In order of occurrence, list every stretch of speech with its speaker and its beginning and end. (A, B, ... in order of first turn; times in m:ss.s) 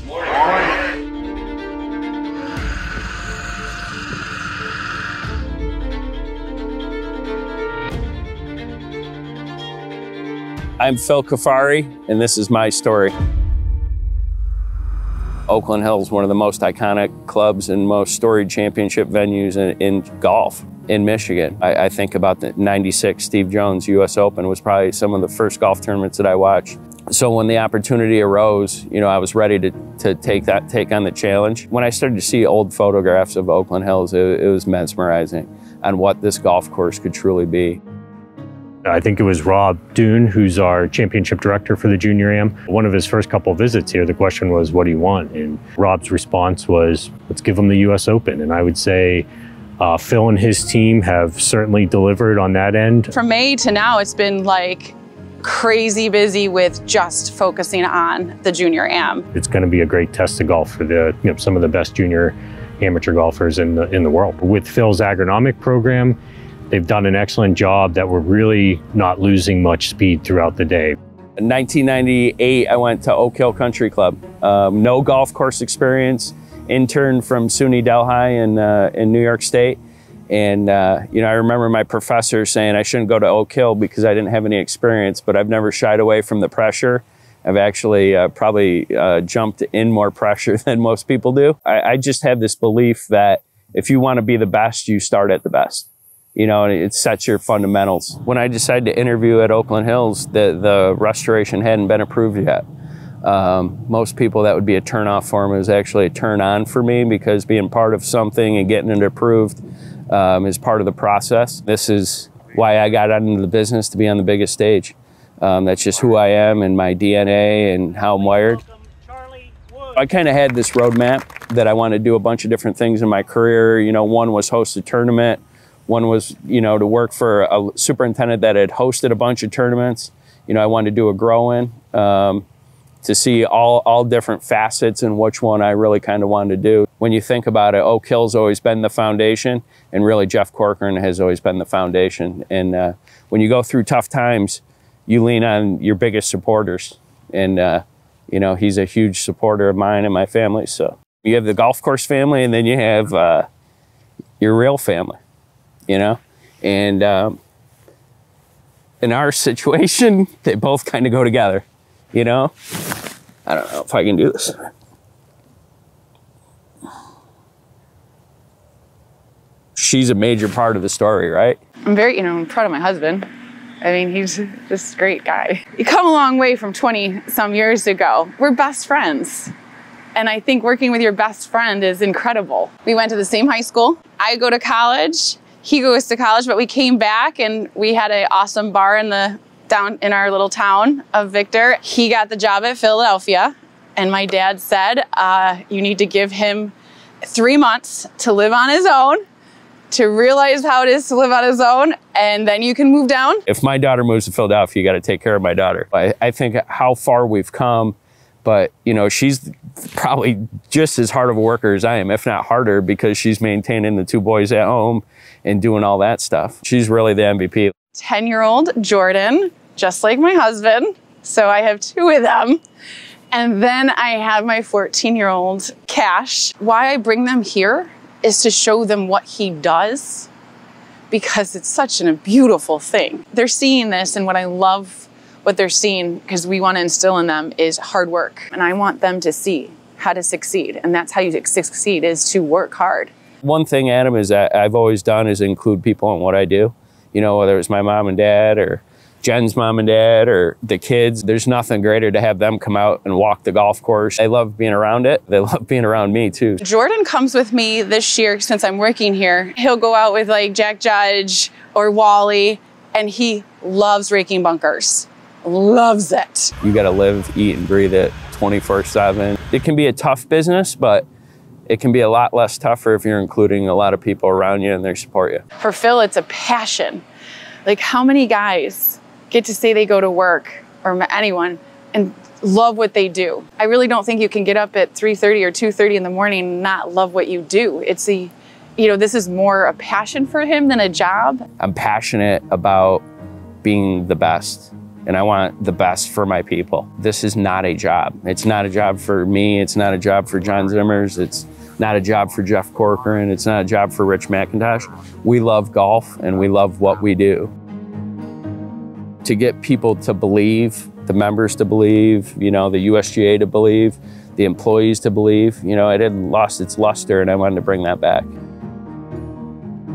0:10.8-0:13.1 A
0:15.5-0:37.8 A
0:38.9-0:49.3 B
0:49.8-0:53.1 B
0:53.1-0:59.3 C
0:59.4-1:06.2 B
1:06.7-1:11.0 B
1:11.4-1:19.8 A
1:20.3-1:42.6 A
1:43.2-1:58.6 A
1:59.9-2:12.4 A
2:13.0-2:33.5 A
2:34.4-2:35.2 A
2:35.9-2:37.4 A
2:39.0-2:43.0 A
2:43.5-2:44.7 A
2:49.8-2:51.6 A
2:51.9-2:53.3 C
2:53.8-2:59.5 C
3:00.2-3:19.2 C
3:19.9-3:23.4 C
3:23.5-3:37.7 A
3:38.0-3:42.6 C
3:43.3-3:50.3 C
3:51.1-4:03.1 C
4:03.4-4:16.6 A
4:16.6-4:26.5 C
4:26.6-4:31.0 A
4:31.7-4:35.4 A
4:35.6-4:37.0 C
4:37.6-4:51.5 C
4:51.6-4:53.0 A
4:53.6-5:07.5 A
5:09.2-5:18.3 A